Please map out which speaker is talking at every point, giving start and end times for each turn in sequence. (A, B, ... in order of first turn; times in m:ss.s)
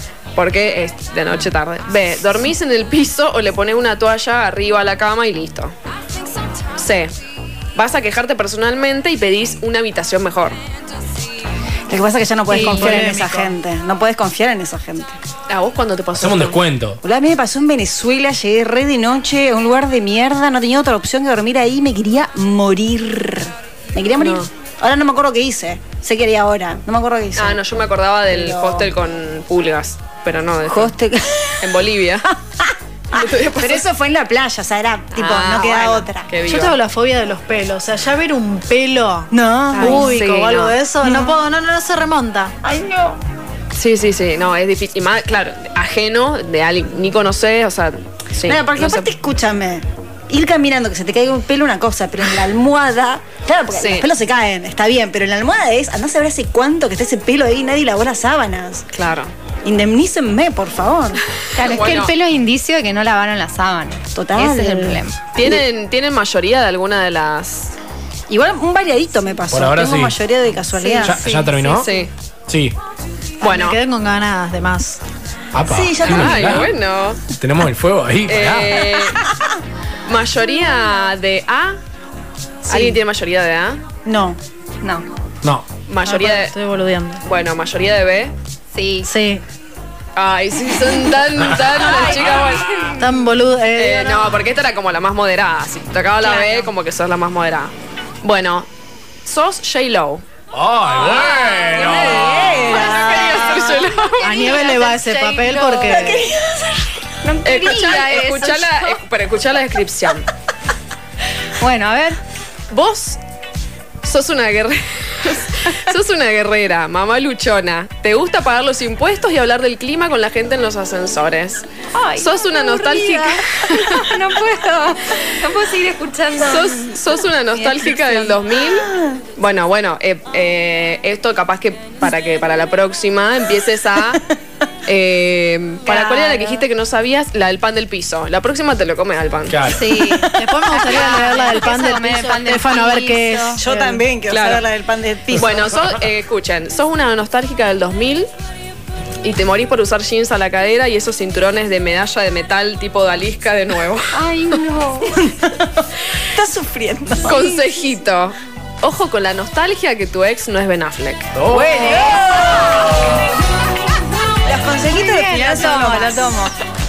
0:00.3-0:05.7 A
0:06.8-0:07.1 A
0:07.7-0:10.6 A
0:11.9-0:15.2 B
0:12.5-0:13.5 C
0:12.5-0:12.9 A
0:15.5-0:16.6 A
0:16.2-0:17.0 D
0:17.0-0:27.7 B
0:24.2-0:24.5 A
0:27.4-0:30.9 A
0:28.3-0:28.9 B
0:30.7-0:31.7 B
0:31.6-0:32.3 A
0:32.3-0:36.3 B
0:33.1-0:33.8 A
0:35.1-0:36.8 A
0:36.4-0:42.6 C
0:39.3-0:40.1 B
0:39.7-0:40.8 A
0:41.0-0:41.4 B
0:42.6-0:43.2 B
0:43.7-0:49.1 A
0:48.4-0:58.8 B
0:53.7-0:54.1 A
0:58.9-0:59.3 A
0:59.6-1:01.2 B
1:01.5-1:05.2 E
1:01.6-1:02.1 A
1:04.1-1:05.6 B
1:05.3-1:07.8 A
1:08.3-1:11.5 B
1:09.5-1:10.2 D
1:10.8-1:11.1 C
1:11.0-1:11.9 D
1:11.2-1:12.1 A
1:12.5-1:12.8 D
1:13.4-1:13.8 A
1:13.4-1:15.0 C
1:15.5-1:16.7 D
1:15.7-1:16.7 B
1:16.0-1:17.2 A
1:17.4-1:19.0 D
1:18.2-1:19.2 A
1:20.0-1:21.8 A
1:22.6-1:23.8 A
1:22.7-1:23.0 B
1:24.0-1:25.0 B
1:25.9-1:26.5 A
1:26.0-1:27.2 C
1:27.2-1:28.3 A
1:28.7-1:29.1 E
1:29.0-1:29.4 C
1:30.1-1:33.0 A
1:31.8-1:33.0 E
1:33.0-1:34.4 C
1:33.7-1:38.7 A
1:36.2-1:36.7 E
1:39.2-1:40.2 A
1:40.5-1:42.2 D
1:40.9-1:44.6 A
1:41.7-1:43.8 B
1:41.8-1:42.5 E
1:44.1-1:46.3 E
1:44.2-1:46.2 C
1:45.9-1:46.9 B
1:47.2-1:49.0 E
1:47.4-1:50.2 A
1:51.6-1:52.2 E
1:52.7-1:53.2 A
1:54.0-2:04.2 A
2:01.9-2:08.4 E
2:06.4-2:14.2 A
2:14.8-2:19.8 A
2:15.9-2:16.5 E
2:19.5-2:19.9 D
2:19.7-2:23.6 E
2:19.9-2:20.4 B
2:20.3-2:24.0 C
2:23.6-2:25.6 B
2:24.3-2:24.6 A
2:25.4-2:28.3 A
2:29.2-2:34.6 A
2:34.1-2:35.3 E
2:35.2-2:37.6 B
2:37.2-2:41.3 A
2:41.3-2:42.4 D
2:41.4-2:43.2 B
2:41.8-2:42.3 E
2:44.4-2:46.5 B
2:44.8-2:46.5 E